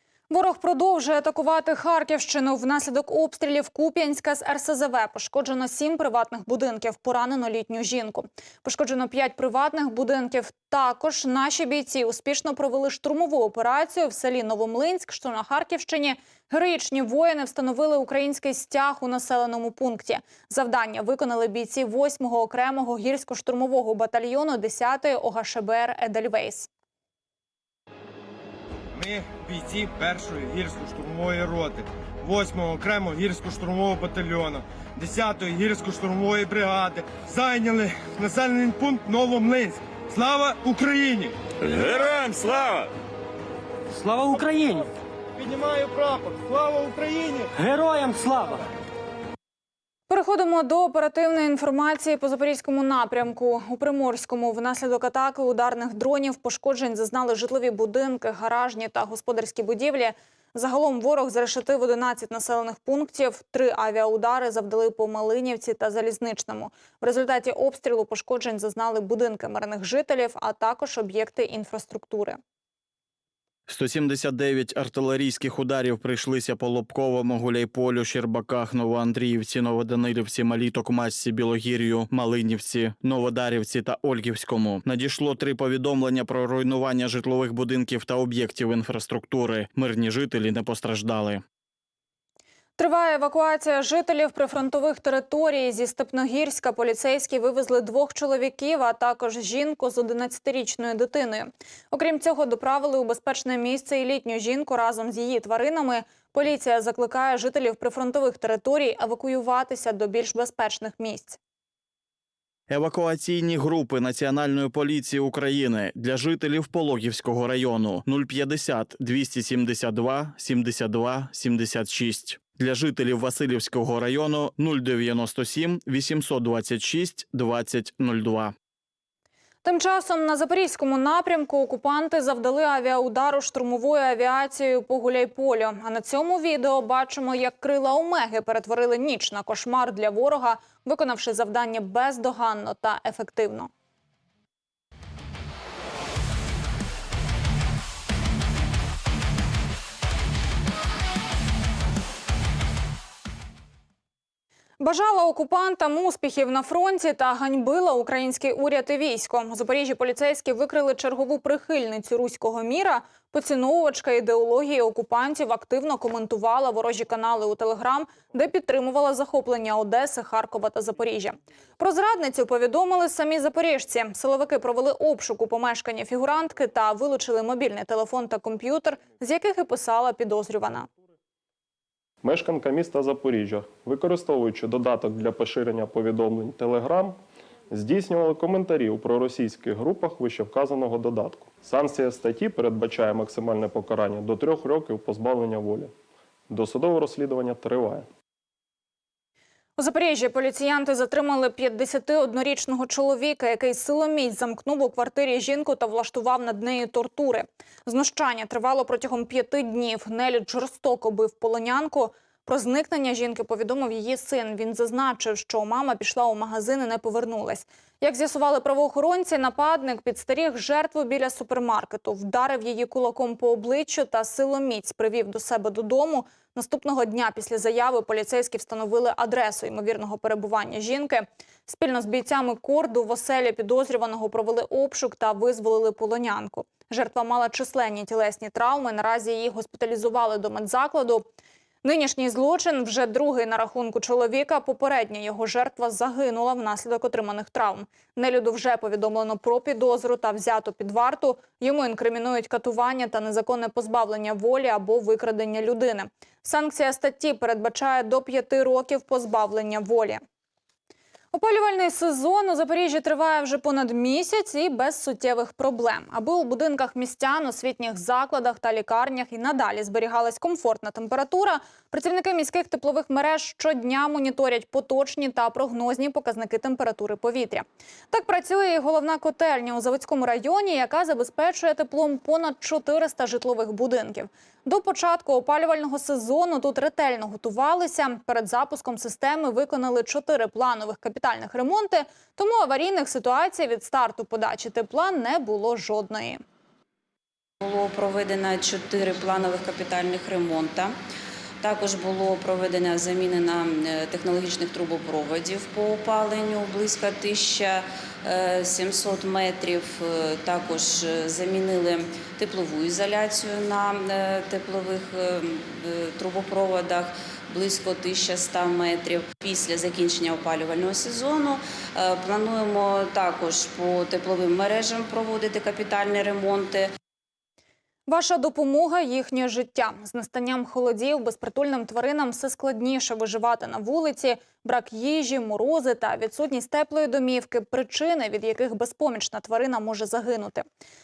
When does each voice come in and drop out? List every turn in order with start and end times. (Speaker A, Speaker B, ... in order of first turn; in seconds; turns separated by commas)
Speaker A: 0.3-26.7, Speaker B: 28.9-42.2, Speaker C: 44.0-44.8, Speaker B: 45.4-47.5, Speaker C: 47.5-48.6, Speaker A: 50.1-72.4, Speaker D: 73.7-91.4, Speaker A: 92.8-111.4, Speaker D: 112.7-128.5, Speaker A: 129.6-143.7, Speaker A: 154.8-180.9, Speaker E: 182.2-187.2, Speaker E: 187.7-195.9, Speaker E: 196.5-198.1, Speaker A: 199.8-241.2, Speaker A: 241.8-260.2, Speaker A: 261.3-296.4, Speaker F: 297.6-300.9, Speaker F: 301.6-326.9, Speaker A: 328.1-340.6